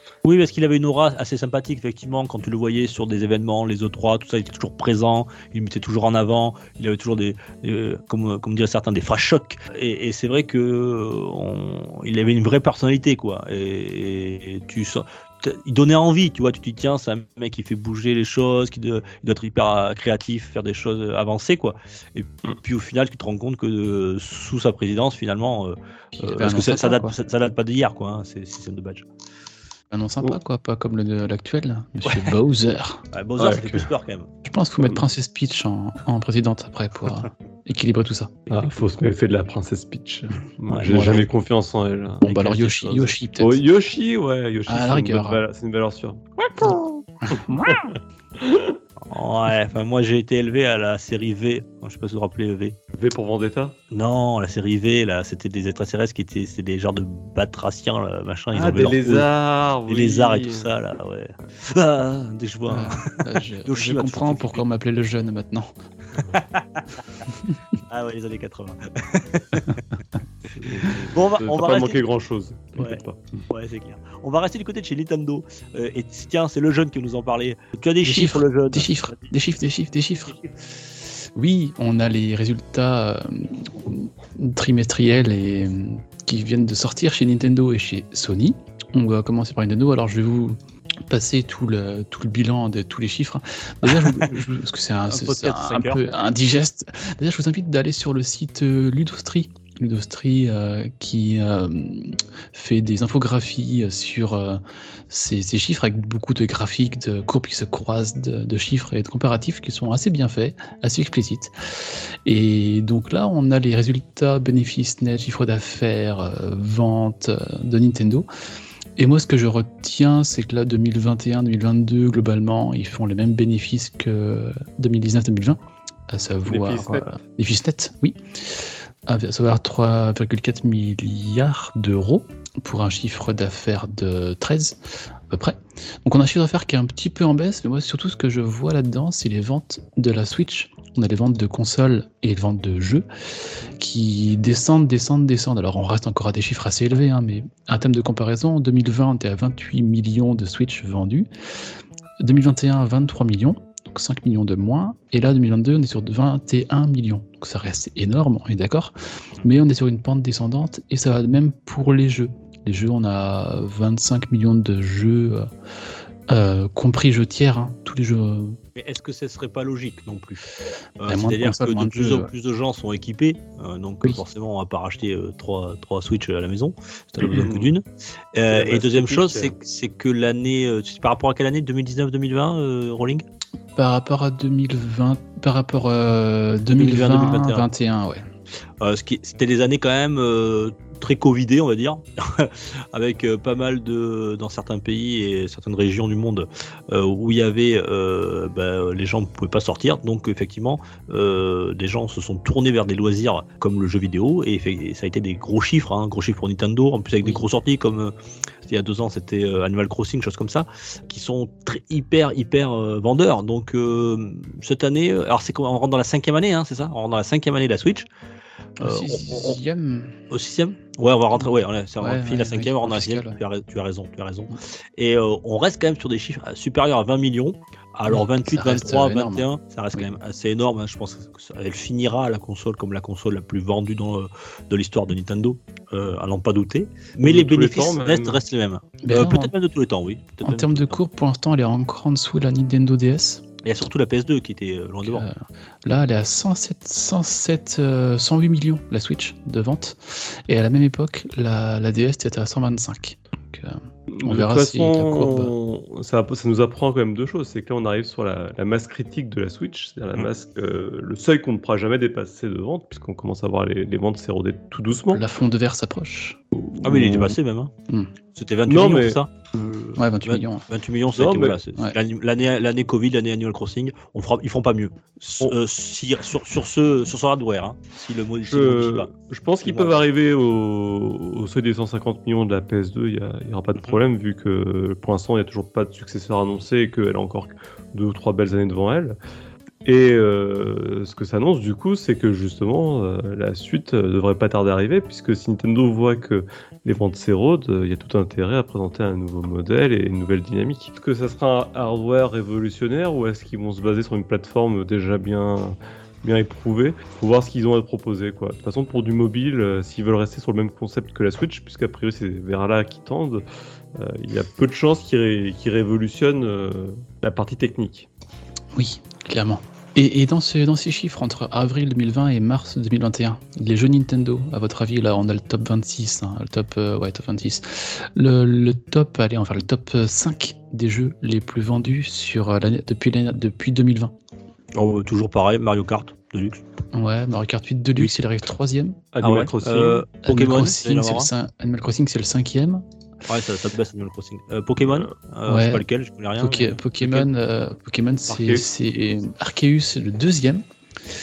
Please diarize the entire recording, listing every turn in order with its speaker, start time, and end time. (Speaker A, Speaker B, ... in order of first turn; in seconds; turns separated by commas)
Speaker A: 0.2-29.1, Speaker B: 26.1-27.1, Speaker B: 29.9-33.0, Speaker A: 32.0-32.3, Speaker A: 33.1-34.3, Speaker C: 33.4-33.9, Speaker B: 34.5-38.5, Speaker C: 38.5-48.8, Speaker B: 40.9-41.3, Speaker B: 42.2-43.6, Speaker B: 44.7-45.4, Speaker B: 46.6-47.8, Speaker A: 49.1-52.8, Speaker C: 52.9-53.8, Speaker A: 53.9-59.3, Speaker C: 58.5-60.7, Speaker A: 59.9-64.6, Speaker B: 62.7-65.7, Speaker A: 66.2-66.8, Speaker A: 67.9-69.8, Speaker A: 70.6-72.0, Speaker C: 70.6-73.2, Speaker A: 72.8-79.3, Speaker B: 78.0-80.3, Speaker B: 81.3-118.3, Speaker A: 93.8-94.3, Speaker A: 95.1-96.1, Speaker B: 119.0-143.1, Speaker C: 126.5-127.1, Speaker B: 143.7-151.3, Speaker B: 152.2-165.5, Speaker B: 166.3-168.6, Speaker A: 168.8-170.4, Speaker A: 171.0-183.2, Speaker B: 171.1-172.3, Speaker B: 177.1-177.4, Speaker C: 177.2-177.7, Speaker C: 178.5-179.5, Speaker B: 183.8-188.3, Speaker A: 186.7-187.7, Speaker A: 188.8-208.1, Speaker A: 208.6-218.1, Speaker B: 218.8-220.2, Speaker A: 218.8-219.6, Speaker A: 220.3-241.0, Speaker B: 222.0-223.4, Speaker B: 228.1-230.1, Speaker C: 237.2-238.4, Speaker B: 239.0-239.5, Speaker B: 240.4-243.4, Speaker A: 243.6-245.3, Speaker B: 245.0-255.5, Speaker C: 254.1-265.2, Speaker B: 265.1-266.4, Speaker C: 266.6-267.3, Speaker A: 266.8-267.7, Speaker A: 268.3-279.1, Speaker C: 268.7-269.2, Speaker B: 270.0-270.6, Speaker C: 271.2-271.6, Speaker C: 278.4-289.2, Speaker A: 279.6-280.0, Speaker C: 289.9-313.4, Speaker C: 314.0-318.1, Speaker B: 318.7-334.1, Speaker A: 334.7-336.6, Speaker B: 336.9-339.1, Speaker C: 339.1-340.1, Speaker A: 339.2-341.3, Speaker B: 340.2-342.9, Speaker A: 343.3-347.3, Speaker B: 345.5-345.8, Speaker B: 346.4-350.6, Speaker C: 348.3-348.6